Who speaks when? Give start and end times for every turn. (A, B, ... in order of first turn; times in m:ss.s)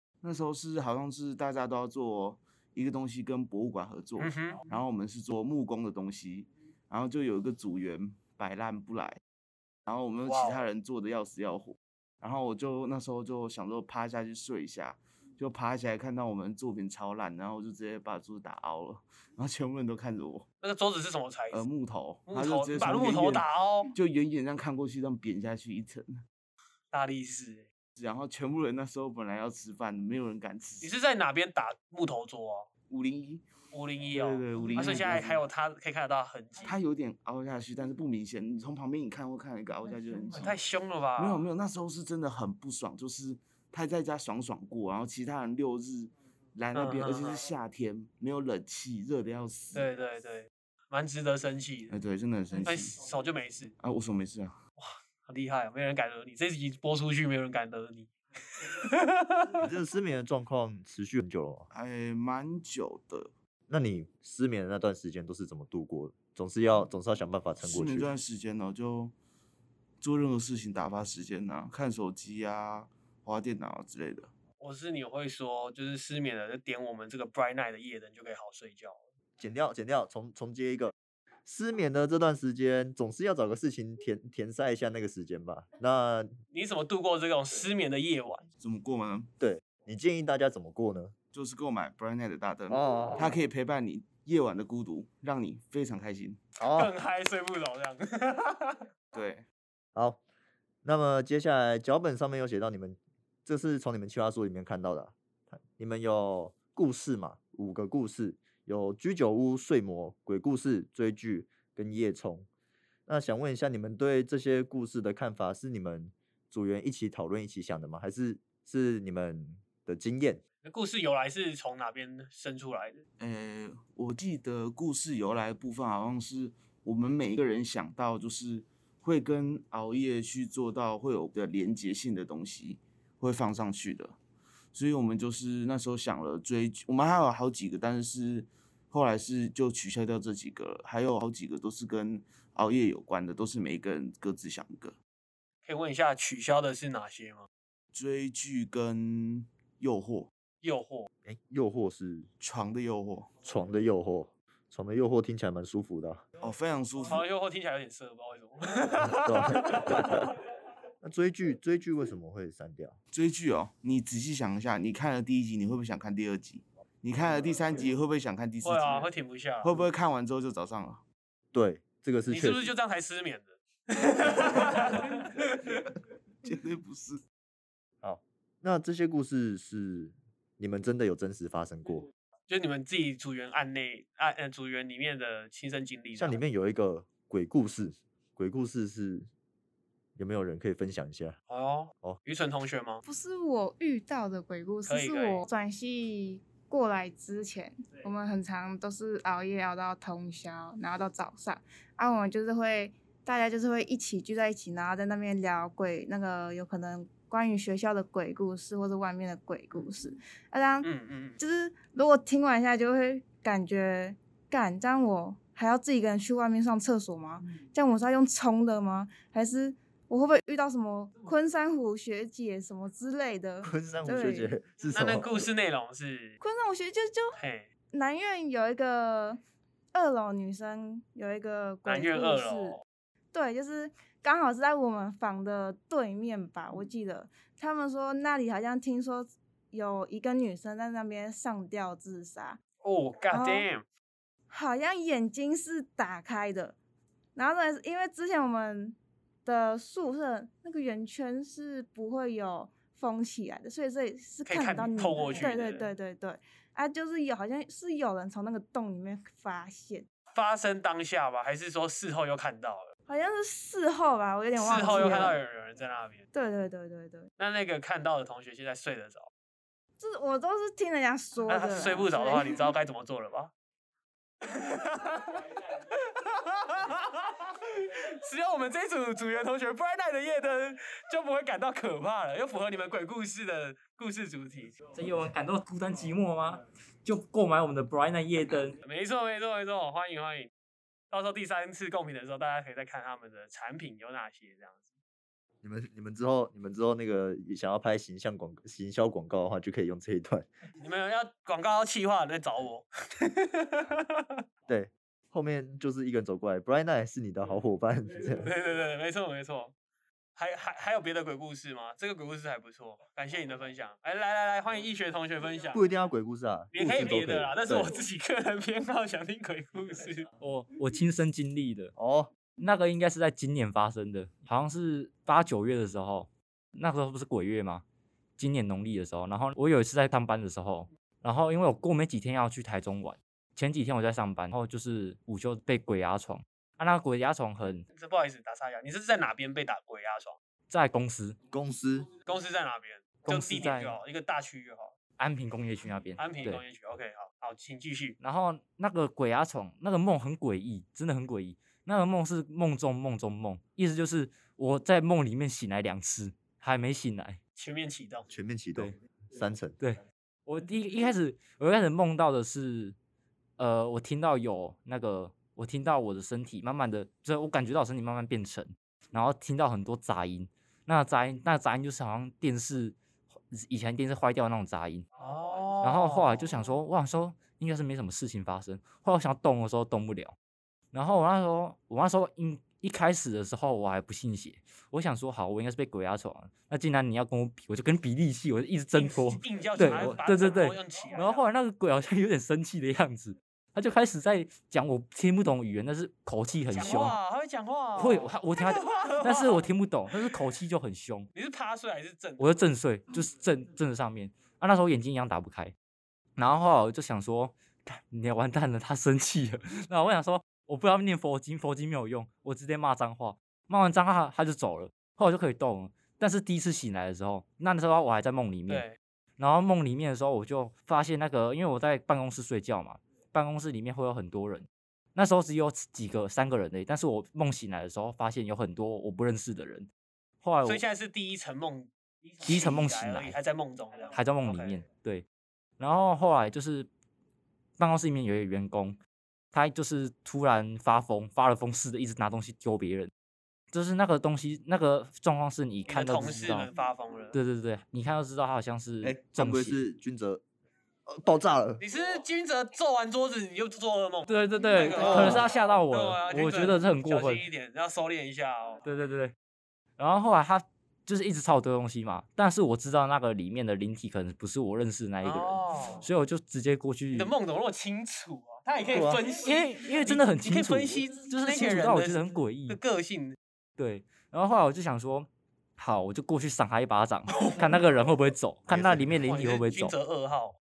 0:00.2-0:09.2 A
0:04.2-0:04.6 B
0:09.9-0:20.5 A
0:10.3-0:10.7 B
0:20.6-0:21.7 B
0:21.5-0:26.2 A
0:22.3-0:23.9 B
0:26.9-0:27.7 B
0:28.0-0:30.9 A
0:30.8-0:32.7 B
0:32.9-0:33.4 A
0:33.7-0:36.7 B
0:34.1-0:35.4 A
0:36.6-0:40.6 A
0:40.4-0:41.4 B
0:41.2-0:49.9 A
0:46.7-0:47.4 B
0:49.7-0:51.9 B
0:51.9-0:53.0 A
0:52.6-0:53.7 B
0:53.8-0:54.6 A
0:54.8-0:59.6 B
0:59.6-1:01.7 C
1:01.7-1:03.3 A
1:03.7-1:08.1 C
1:07.6-1:09.2 A
1:10.0-1:14.3 A
1:14.6-1:19.0 B
1:19.4-1:20.9 C
1:21.4-1:26.3 C
1:26.5-1:28.4 B
1:28.6-1:29.3 A
1:29.4-1:31.1 C
1:31.3-1:36.4 A
1:32.7-1:33.4 C
1:36.6-1:36.9 C
1:36.7-1:38.8 B
1:39.1-1:39.4 A
1:40.0-1:40.2 C
1:40.8-1:52.5 C
1:53.1-2:00.4 C
2:00.6-2:03.0 B
2:03.2-2:14.2 A
2:14.7-2:25.0 A
2:25.6-2:27.5 B
2:27.9-2:30.3 A
2:30.6-2:31.1 B
2:31.2-2:32.3 C
2:32.4-2:33.3 A
2:33.4-2:36.2 C
2:36.4-2:37.2 A
2:37.1-2:40.3 B
2:39.1-2:40.3 C
2:41.0-2:43.0 C
2:43.1-2:49.1 A
2:48.6-2:49.7 B
2:49.6-2:51.0 A
2:51.5-2:52.7 C
2:52.3-2:55.8 B
2:56.4-2:57.2 A
2:58.0-3:02.1 C
3:02.5-3:06.4 B
3:06.2-3:09.3 C
3:10.2-3:11.4 C
3:11.5-3:13.0 B
3:13.0-3:30.9 D
3:14.9-3:15.4 B
3:30.8-3:31.4 B
3:31.4-3:44.5 D
3:43.6-3:45.5 C
3:44.9-3:46.4 B
3:46.4-3:47.4 D
3:47.4-3:47.7 B
3:47.9-3:49.4 D
3:49.9-3:52.8 D
3:51.9-3:52.8 B
3:53.3-4:02.6 D
4:02.8-4:03.8 B
4:03.3-4:03.7 D
4:04.5-4:06.8 D
4:07.4-4:20.1 D
4:14.5-4:15.9 B
4:20.3-4:22.9 B
4:23.1-4:25.4 D
4:24.6-4:26.2 B
4:26.3-4:27.3 D
4:27.4-4:29.3 B
4:30.0-4:32.7 D
4:31.5-4:33.5 B
4:34.4-4:44.8 B
4:44.9-4:48.8 E
4:48.8-4:50.5 B
4:51.1-4:54.8 B
4:55.6-5:00.5 C
5:00.8-5:04.4 B
5:04.7-5:08.5 C
5:08.4-5:09.7 B
5:10.4-5:15.8 B
5:15.7-5:18.0 C
5:16.7-5:20.3 B
5:20.4-5:21.9 E
5:22.0-5:22.3 C
5:22.6-5:27.8 E
5:28.4-5:37.8 E
5:37.9-5:40.4 B
5:40.7-5:41.4 E
5:41.5-5:42.1 C
5:42.3-5:44.9 B
5:43.2-5:44.0 E
5:45.2-5:46.6 E
5:46.2-5:48.2 B
5:48.2-5:57.4 E
5:57.6-5:58.3 B
5:58.3-5:59.8 C
5:59.8-6:03.0 E
6:03.6-6:13.0 E
6:13.5-6:15.1 E
6:15.2-6:16.4 B
6:15.8-6:20.4 E
6:20.9-6:37.2 E
6:28.9-6:31.4 B
6:36.7-6:39.6 B
6:38.0-6:41.3 E
6:41.4-6:42.6 B
6:42.4-6:45.7 E
6:46.4-6:58.9 E
6:58.7-6:59.0 B
6:59.4-7:09.9 E
7:10.4-7:10.8 E
7:10.6-7:14.8 B
7:12.4-7:13.4 E
7:14.1-7:15.2 E
7:15.8-7:16.9 E
7:17.8-7:19.0 E
7:19.5-7:23.1 E
7:23.7-7:26.7 E
7:25.9-7:27.4 B
7:27.3-7:29.8 E
7:29.0-7:30.4 C
7:31.1-7:31.8 C
7:31.8-7:38.8 B
7:34.3-7:37.4 E
7:35.0-7:35.5 C
7:38.8-7:39.3 E
7:40.0-7:47.3 E
7:45.2-7:46.1 B
7:47.1-7:53.4 B
7:48.9-7:49.2 C
7:49.3-7:52.8 E
7:53.8-8:00.0 E
7:57.4-7:57.7 B
7:58.7-7:59.2 C
7:59.3-8:00.6 B